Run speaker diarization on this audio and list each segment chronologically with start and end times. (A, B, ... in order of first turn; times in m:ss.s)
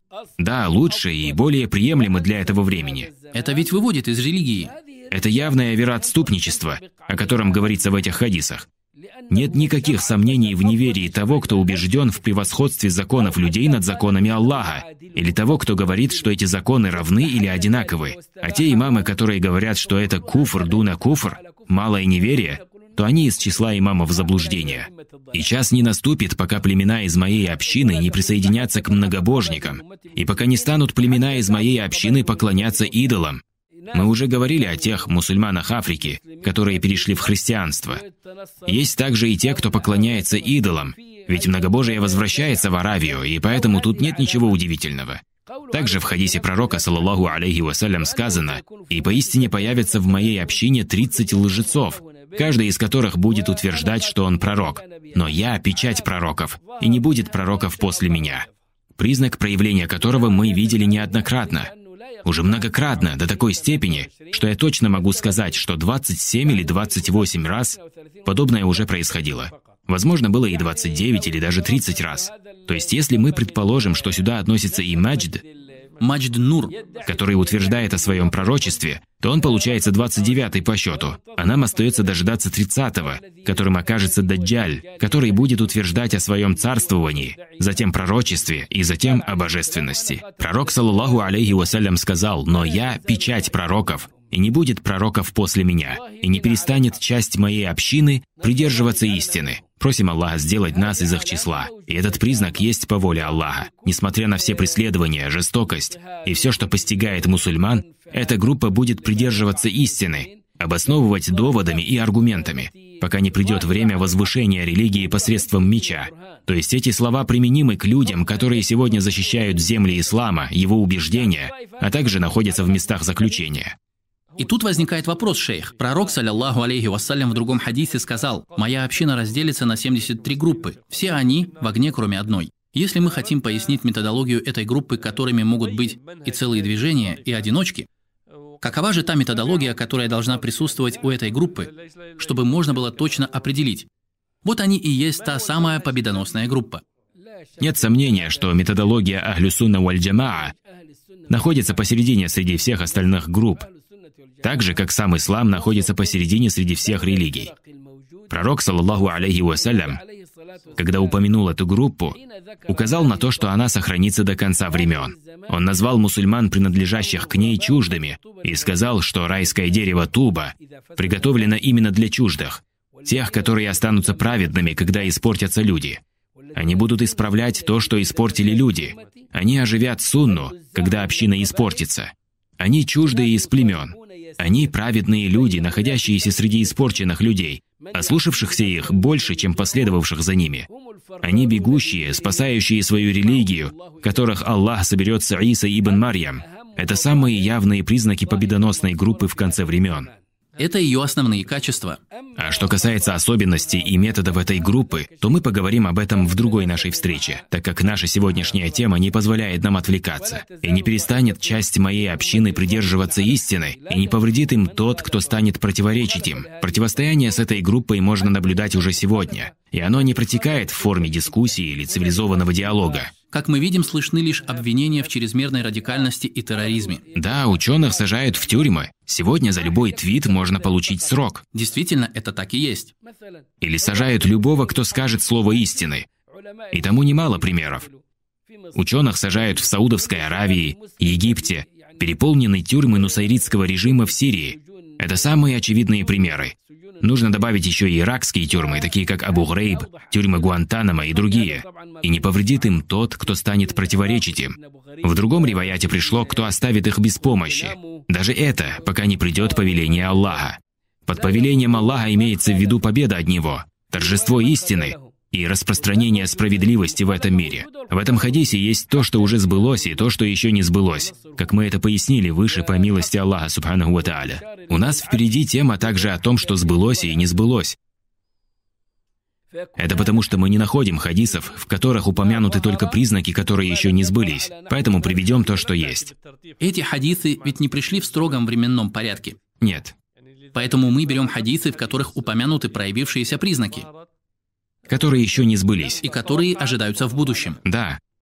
0:00.4-0:03.1 A
0:03.3-0:04.7 B
0:05.1-0:08.7 A
0:09.3-0:38.0 A
0:38.6-1:01.7 A
1:02.2-1:15.4 A
1:16.0-1:16.8 B
1:17.0-2:03.8 A
2:04.4-2:17.9 B
2:18.6-2:23.9 B
2:24.4-2:26.8 B
2:27.6-2:30.5 A
2:31.3-2:33.7 A
2:34.4-2:37.5 A
2:38.3-2:40.0 A
2:40.7-2:56.0 A
2:56.5-3:10.7 A
3:11.2-3:20.1 A
3:20.6-3:22.0 B
3:22.4-3:43.1 A
3:43.3-3:47.0 B
3:47.1-3:51.4 A
3:51.5-3:52.9 B
3:53.6-3:56.0 A
3:56.7-3:57.9 A
3:58.7-4:37.8 A
4:39.8-4:46.1 A
4:46.6-4:49.4 B
4:49.6-4:50.0 A
4:50.5-4:53.9 B
4:54.9-4:56.0 A
4:56.0-4:57.6 B
4:57.6-4:58.0 A